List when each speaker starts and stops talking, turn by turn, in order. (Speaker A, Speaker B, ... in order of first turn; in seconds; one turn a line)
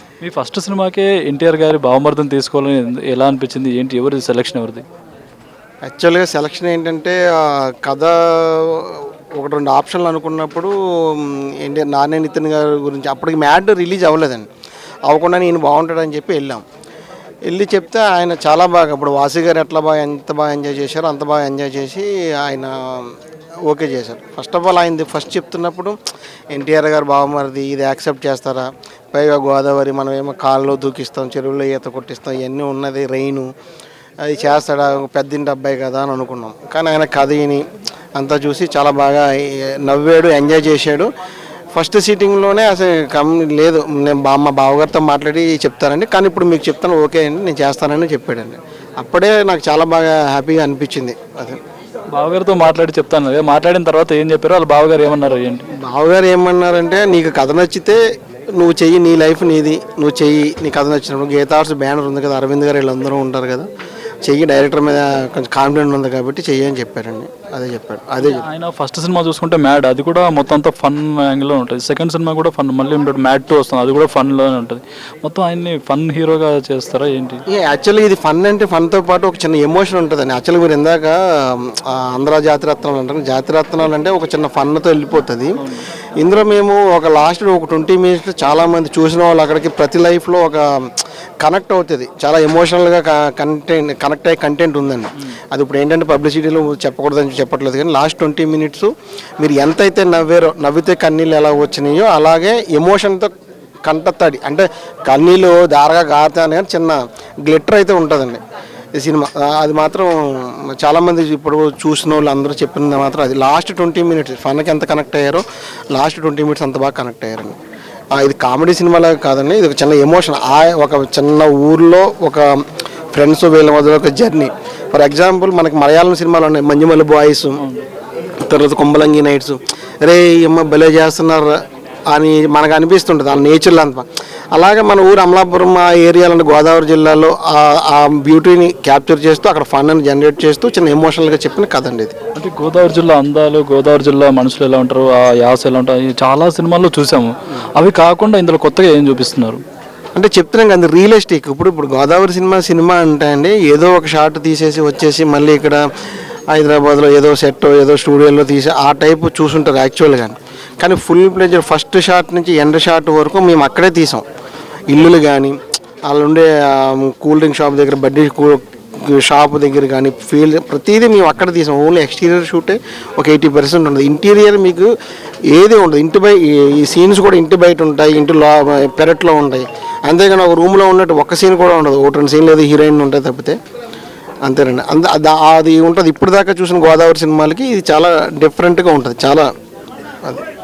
Speaker A: 0.2-4.8
Speaker B: 5.8-14.5
Speaker B: 15.1-16.6
Speaker B: 17.4-26.0
Speaker B: 26.5-33.5
Speaker B: 34.2-37.6
Speaker B: 38.2-41.1
Speaker B: 41.7-51.6
Speaker A: 52.1-55.6
Speaker B: 55.8-58.0
Speaker B: 58.5-63.7
Speaker B: 64.2-68.5
Speaker A: 68.2-77.4
Speaker B: 77.5-85.6
Speaker A: 85.6-85.8
Speaker B: 86.2-90.9
Speaker B: 91.4-103.3
Speaker B: 103.8-108.4
Speaker B: 109.0-117.6
Speaker B: 118.1-127.6
Speaker A: 127.6-127.8
Speaker B: 128.4-131.6
Speaker B: 132.1-142.1
Speaker A: 142.3-149.6
Speaker B: 150.2-155.9
Speaker B: 156.5-164.2
Speaker B: 164.9-174.9
Speaker B: 175.5-183.6
Speaker B: 184.4-189.5